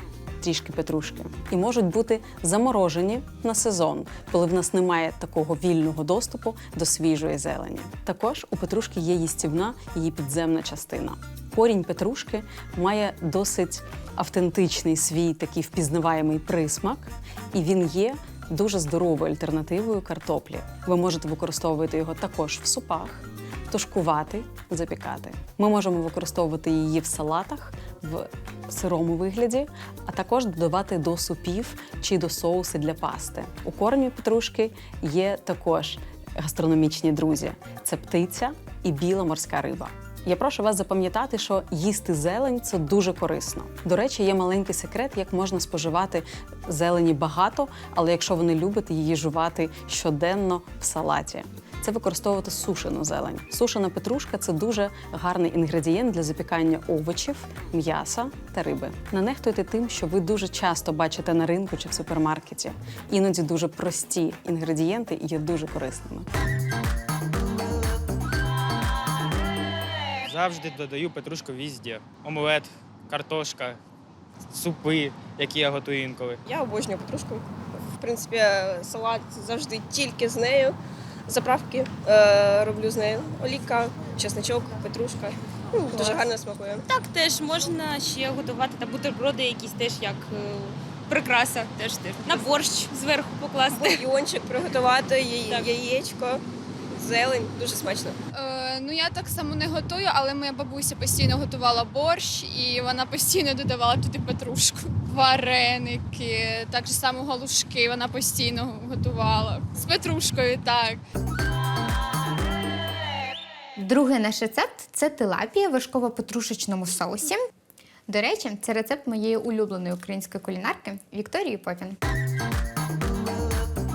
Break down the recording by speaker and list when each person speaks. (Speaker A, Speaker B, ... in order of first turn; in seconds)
Speaker A: 0.4-66.2
Speaker B: 70.2-73.8, 74.5-76.4
Speaker C: 76.4-86.8, 92.3-92.7, 93.7-98.2
Speaker D: 85.9-86.3, 86.8-93.8
Speaker E: 98.3-111.0
Speaker F: 113.8-117.4, 118.1-122.0